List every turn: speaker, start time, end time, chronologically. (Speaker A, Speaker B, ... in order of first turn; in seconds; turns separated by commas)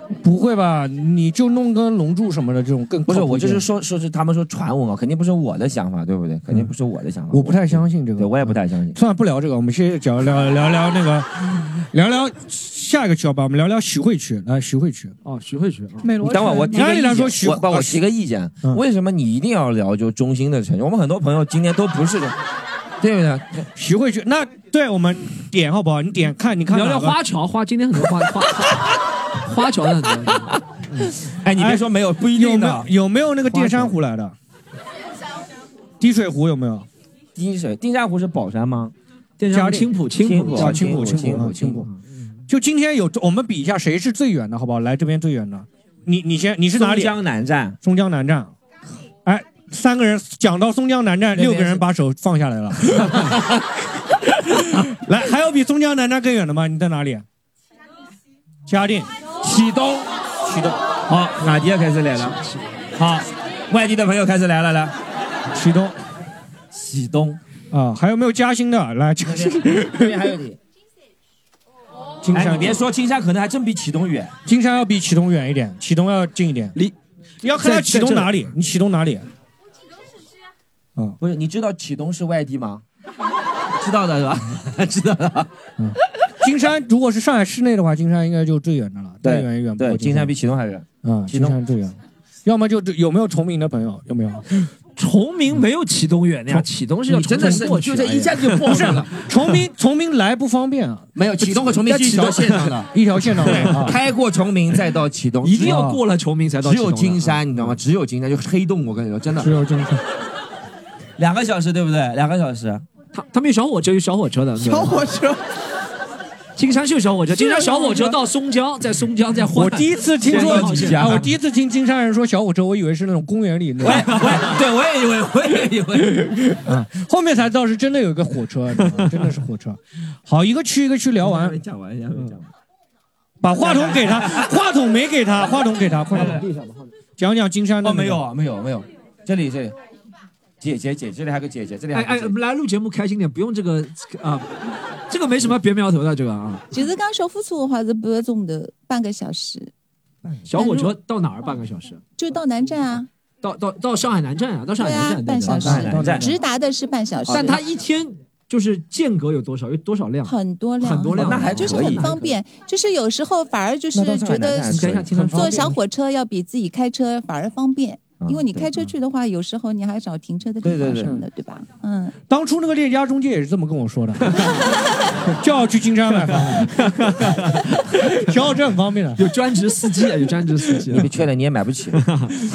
Speaker A: 0.2-3.7, Speaker B: 3.1-9.0, Speaker A: 7.3-15.1, Speaker C: 15.2-16.1, Speaker D: 16.0-16.9, Speaker B: 16.2-22.4, Speaker A: 16.7-18.0, Speaker B: 23.0-23.7, Speaker A: 23.8-27.2, Speaker C: 26.7-31.1, Speaker B: 31.4-32.9, Speaker A: 31.6-34.4, Speaker C: 33.5-33.9, Speaker A: 36.0-36.9, Speaker B: 37.4-38.9, Speaker C: 39.4-42.0, Speaker A: 39.5-39.9, Speaker B: 40.2-41.9, Speaker A: 40.5-41.9, Speaker A: 42.5-47.1, Speaker B: 46.8-47.8, Speaker A: 47.8-48.5, Speaker A: 49.2-53.4, Speaker B: 51.4-51.8, Speaker B: 53.0-53.5, Speaker A: 54.5-57.2, Speaker A: 58.7-59.1, Speaker B: 59.4-60.1, Speaker A: 60.4-60.8, Speaker B: 61.1-62.4, Speaker C: 62.2-62.6, Speaker B: 63.0-65.0, Speaker A: 65.5-66.0, Speaker B: 66.7-67.4, Speaker A: 67.7-70.3, Speaker B: 69.3-70.6, Speaker A: 72.2-72.8, Speaker B: 72.3-74.3, Speaker A: 74.5-76.8, Speaker A: 77.4-79.3, Speaker C: 77.6-78.3, Speaker B: 81.2-82.8, Speaker B: 83.8-85.5, Speaker A: 85.8-90.3, Speaker B: 89.2-91.6, Speaker A: 91.0-94.5, Speaker C: 95.0-99.0, Speaker B: 97.1-99.1, Speaker A: 98.6-104.0, Speaker B: 101.2-105.8, Speaker C: 101.9-102.7, Speaker C: 103.4-103.9, Speaker C: 105.4-107.4, Speaker A: 105.6-106.0, Speaker B: 106.6-109.5, Speaker A: 109.4-110.0, Speaker B: 111.2-112.8, Speaker C: 113.1-115.0, Speaker D: 114.6-115.4, Speaker C: 116.6-121.3, Speaker D: 117.3-118.2, Speaker A: 119.5-124.3, Speaker B: 120.3-121.3, Speaker C: 123.8-124.6, Speaker B: 123.8-126.6, Speaker A: 126.7-131.6, Speaker B: 131.2-132.5, Speaker A: 133.4-136.4, Speaker B: 133.6-134.5, Speaker B: 136.1-136.9, Speaker A: 137.2-138.2, Speaker B: 137.8-139.8, Speaker B: 140.6-142.4, Speaker C: 141.9-144.5, Speaker C: 145.1-146.7, Speaker E: 146.7-149.7, Speaker C: 150.5-152.0, Speaker E: 150.6-150.9, Speaker E: 152.2-153.1, Speaker C: 153.4-155.9, Speaker E: 154.8-157.6, Speaker A: 155.5-156.3, Speaker B: 155.5-156.3, Speaker C: 157.3-162.3, Speaker E: 160.2-164.8, Speaker B: 161.2-162.2, Speaker B: 163.9-165.8, Speaker C: 164.7-165.6, Speaker A: 164.8-165.8, Speaker E: 165.3-172.2, Speaker B: 168.2-168.8, Speaker B: 170.6-171.2, Speaker A: 172.3-174.4, Speaker A: 175.3-177.0, Speaker C: 176.3-178.1, Speaker A: 178.0-179.2, Speaker C: 179.2-181.1, Speaker B: 180.9-182.0, Speaker C: 182.0-182.3